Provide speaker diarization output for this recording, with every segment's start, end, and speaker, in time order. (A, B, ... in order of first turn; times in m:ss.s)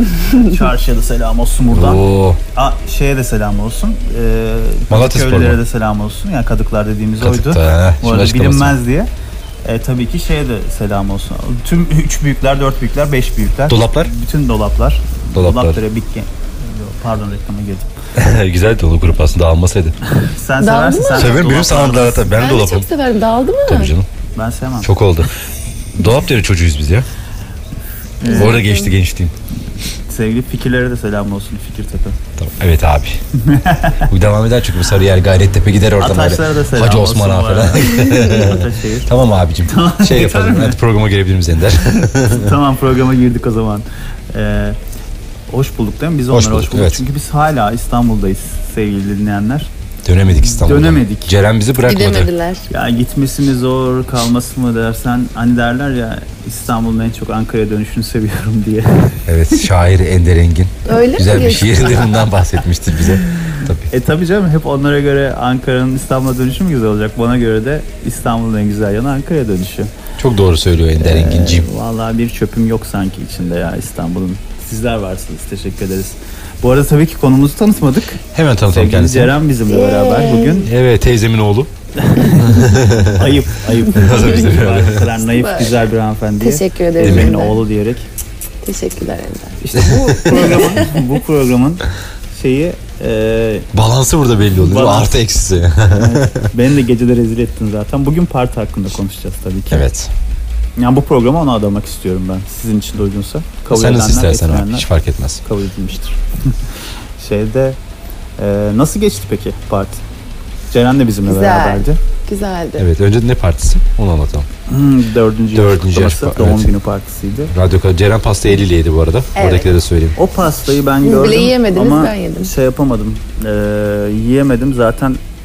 0:00.2-0:02.0 A
0:01.7-0:02.4 B
0:02.5-0:09.1 A
0:04.9-0:05.6 B
0:07.2-0:08.8 B
0:09.6-0:17.9 A
0:13.7-0:14.1 B
0:15.3-0:15.8 B
0:18.1-0:19.9 B
0:20.1-0:22.3 A
0:20.6-0:23.9 C
0:21.1-0:22.9 B
0:23.6-0:24.1 B
0:24.4-0:24.9 A
0:24.8-0:25.3 B
0:26.0-0:27.1 B
0:28.2-0:28.6 A
0:28.2-0:28.9 C
0:28.3-0:29.3 B
0:30.1-0:32.2 A
0:32.4-0:33.2 B
0:33.3-0:34.1 A
0:34.1-0:42.5 B
0:36.0-0:40.8 A
0:42.0-0:44.8 A
0:45.5-0:49.7 A
0:46.3-0:47.0 B
0:50.0-0:52.3 B
0:50.4-0:51.3 A
0:51.8-0:52.7 C
0:52.7-0:59.2 A
0:59.3-1:03.8 B
1:00.8-1:02.2 C
1:03.1-1:09.9 A
1:10.2-1:11.7 B
1:11.0-1:20.7 A
1:18.3-1:19.4 B
1:19.7-1:20.6 C
1:20.6-1:25.1 B
1:22.0-1:28.0 A
1:25.3-1:25.8 C
1:26.4-1:27.6 C
1:27.0-1:27.4 B
1:28.6-1:29.6 C
1:29.6-1:33.7 A
1:29.7-1:30.8 B
1:33.7-1:36.5 B
1:34.5-1:35.1 A
1:35.9-1:39.9 A
1:39.7-1:40.1 B
1:40.8-1:44.8 A
1:43.7-1:45.4 B
1:45.4-1:46.5 A
1:47.2-1:47.8 A
1:48.4-1:50.0 A
1:50.7-1:52.0 A
1:51.2-1:52.9 C
1:52.8-1:54.5 B
1:54.7-1:57.5 A
1:55.5-1:56.8 B
1:57.5-2:00.2 B
1:59.3-1:59.7 C
2:00.2-2:05.2 A
2:01.0-2:02.5 C